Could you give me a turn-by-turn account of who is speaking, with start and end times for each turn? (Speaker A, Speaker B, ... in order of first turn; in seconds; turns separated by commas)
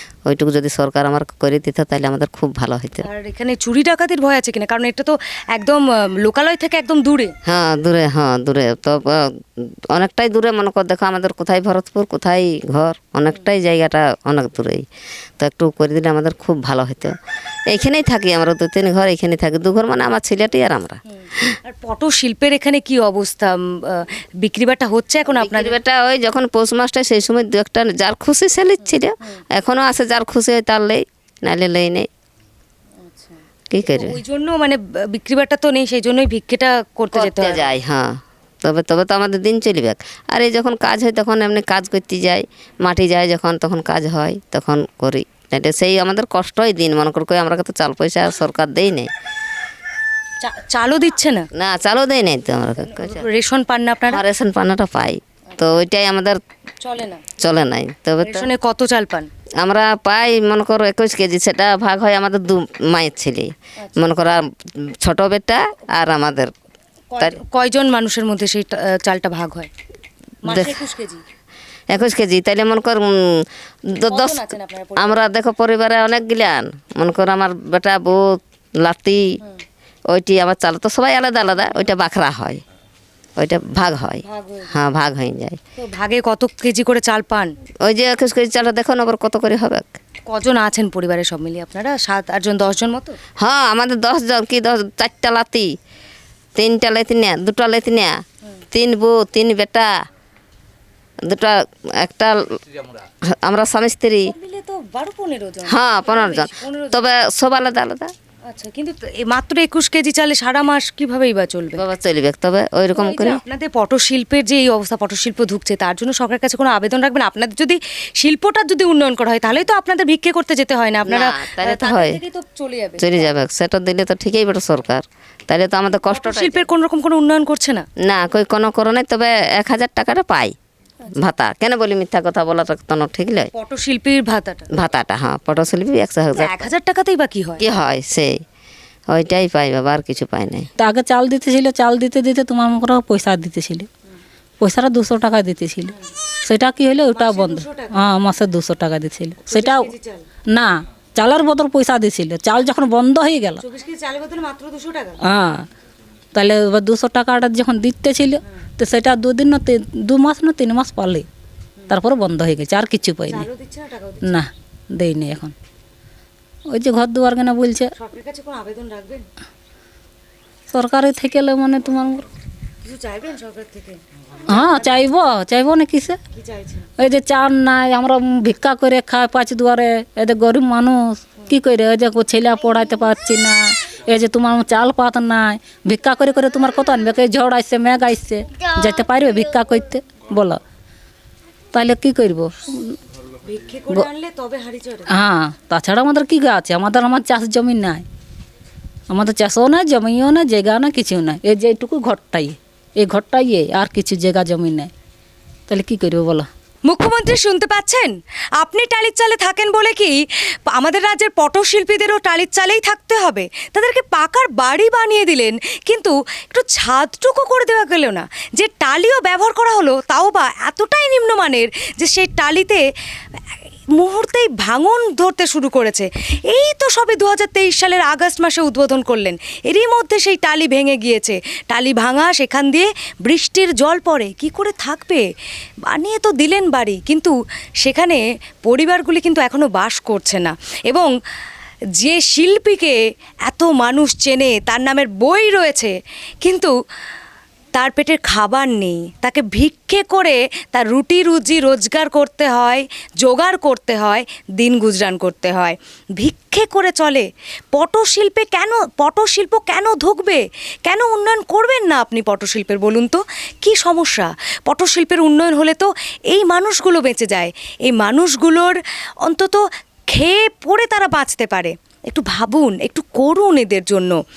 Speaker A: 0.2-3.1, Speaker B: 3.0-7.3, Speaker A: 7.5-14.8, Speaker A: 15.4-17.1, Speaker A: 17.7-21.6, Speaker B: 21.2-25.8, Speaker A: 25.3-32.1, Speaker B: 33.0-37.7, Speaker A: 33.7-34.2, Speaker A: 37.1-49.1, Speaker B: 50.4-51.5, Speaker A: 51.5-53.3, Speaker B: 52.9-54.2, Speaker A: 54.1-56.4, Speaker B: 56.8-57.2, Speaker A: 57.4-58.5, Speaker B: 58.2-59.3, Speaker A: 59.6-66.5, Speaker B: 67.1-69.7, Speaker B: 70.4-71.2, Speaker A: 70.5-70.8, Speaker A: 71.9-74.5, Speaker B: 74.1-75.2, Speaker A: 75.0-79.4, Speaker A: 80.1-82.6, Speaker A: 83.4-85.6, Speaker B: 84.2-84.8, Speaker B: 85.8-87.5, Speaker A: 87.8-90.0, Speaker B: 90.3-93.2, Speaker A: 93.4-95.7, Speaker A: 96.6-98.2, Speaker A: 98.7-99.9, Speaker A: 101.2-104.3, Speaker B: 104.3-107.0, Speaker A: 105.7-108.1, Speaker B: 108.5-111.8, Speaker A: 111.8-113.4, Speaker B: 113.0-123.3, Speaker A: 121.1-122.2, Speaker A: 123.0-126.7, Speaker B: 126.1-127.8, Speaker A: 128.0-130.6, Speaker A: 131.2-133.5, Speaker B: 133.5-134.7, Speaker A: 134.7-136.7, Speaker B: 136.4-137.6, Speaker A: 137.6-138.4, Speaker A: 139.1-140.7, Speaker C: 140.8-143.9, Speaker C: 144.6-149.9, Speaker B: 147.2-148.0, Speaker B: 149.5-150.3, Speaker C: 150.5-153.6, Speaker B: 153.6-155.2, Speaker C: 155.3-155.7, Speaker C: 156.3-161.3, Speaker C: 161.9-163.5, Speaker B: 163.3-164.4, Speaker C: 164.3-165.5, Speaker C: 166.7-167.9, Speaker B: 168.0-169.3, Speaker C: 170.7-172.3, Speaker B: 172.8-174.7, Speaker C: 174.5-176.2, Speaker B: 176.3-176.9, Speaker C: 177.0-190.6, Speaker C: 191.7-193.0, Speaker B: 193.4-195.1, Speaker C: 195.1-198.1, Speaker C: 199.1-204.9, Speaker C: 205.7-206.5, Speaker B: 206.9-222.8, Speaker B: 224.0-235.2, Speaker B: 235.9-241.1, Speaker B: 242.0-246.7, Speaker B: 247.7-269.6, Speaker B: 270.1-274.2